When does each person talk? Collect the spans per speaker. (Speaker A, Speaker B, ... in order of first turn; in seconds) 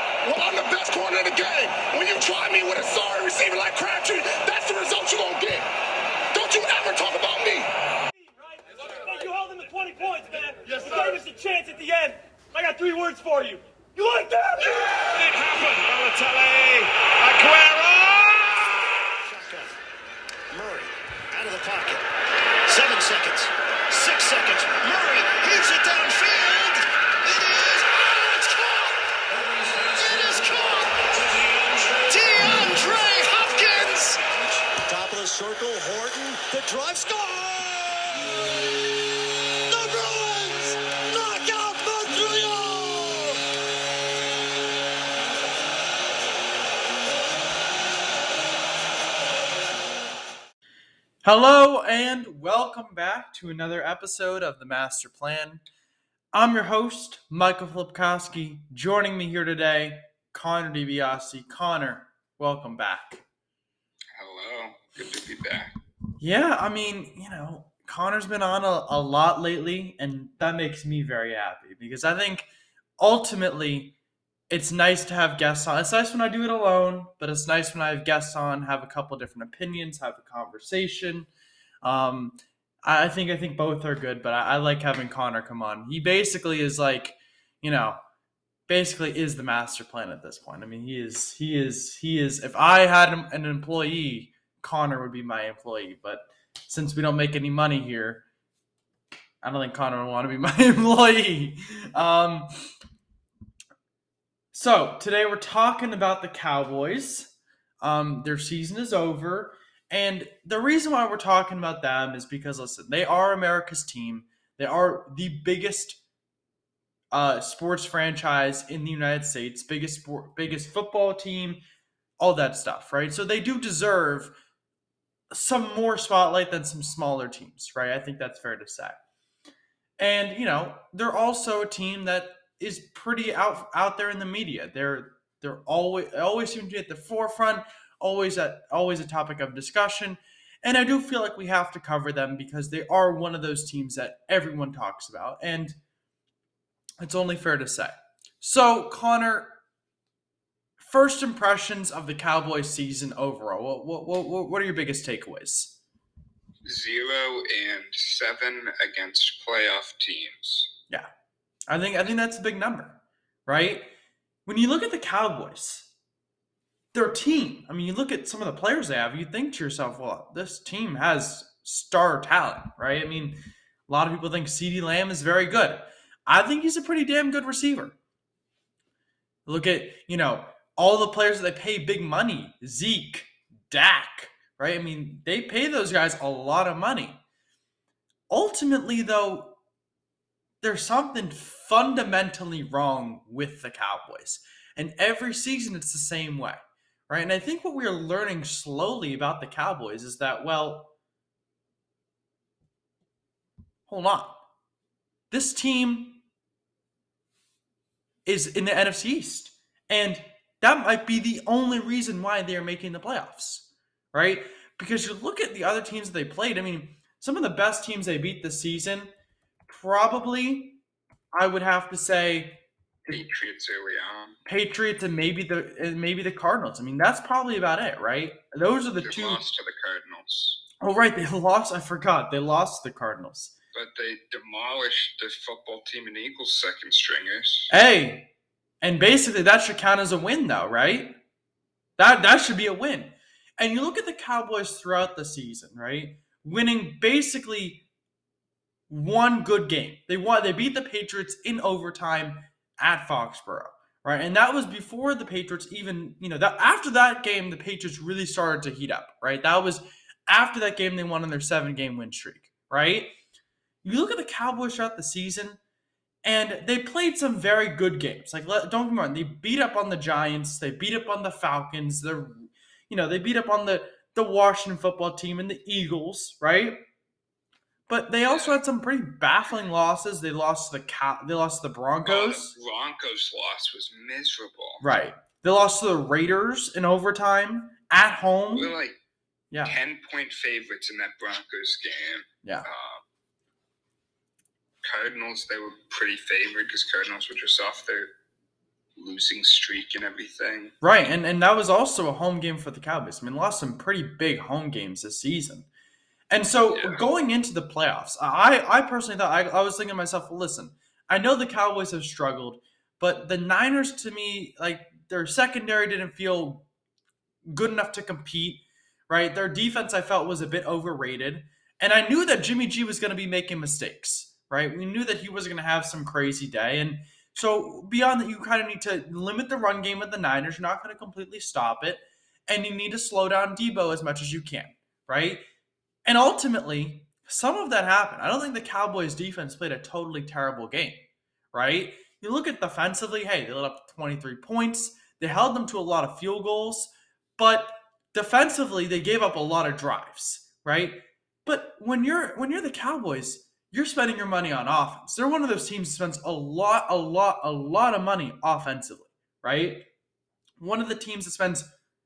Speaker A: 0.2-5.7, 6.3-7.7, 15.2-18.8
Speaker B: 8.5-14.7
Speaker C: 19.2-19.7, 20.5-22.0, 22.7-29.0, 29.7-31.1, 32.0-34.2, 34.8-38.3, 39.7-43.4
Speaker D: 51.2-55.6, 56.3-63.2, 66.2-72.5, 73.0-74.0, 74.5-81.3, 81.8-88.0, 88.7-98.2, 99.4-102.7, 104.5-116.0, 117.1-121.6, 122.2-124.3, 125.3-129.0, 130.0-145.8, 147.0-149.6, 150.8-155.8, 161.7-163.9, 164.4-165.9, 166.9-178.0, 179.4-187.2, 188.3-189.6, 190.6-200.9, 203.9-204.4, 205.3-206.2, 208.2-219.1, 219.7-220.8, 221.3-223.2, 224.4-229.4, 230.8-233.5, 237.7-238.3, 238.8-241.2, 242.0-247.8, 248.9-263.1, 263.8-265.6, 266.2-276.8, 277.9-282.6, 284.8-288.7, 289.5-289.8, 300.8-305.7, 306.3-316.7, 317.5-335.4, 336.0-359.9, 360.6-361.7
Speaker E: 64.2-65.7, 156.6-160.7, 223.1-224.4, 229.0-230.6, 233.7-237.7, 278.3-278.6, 282.1-284.9, 288.5-289.0, 289.6-293.0, 294.8-298.1, 299.0-300.7, 306.7-307.0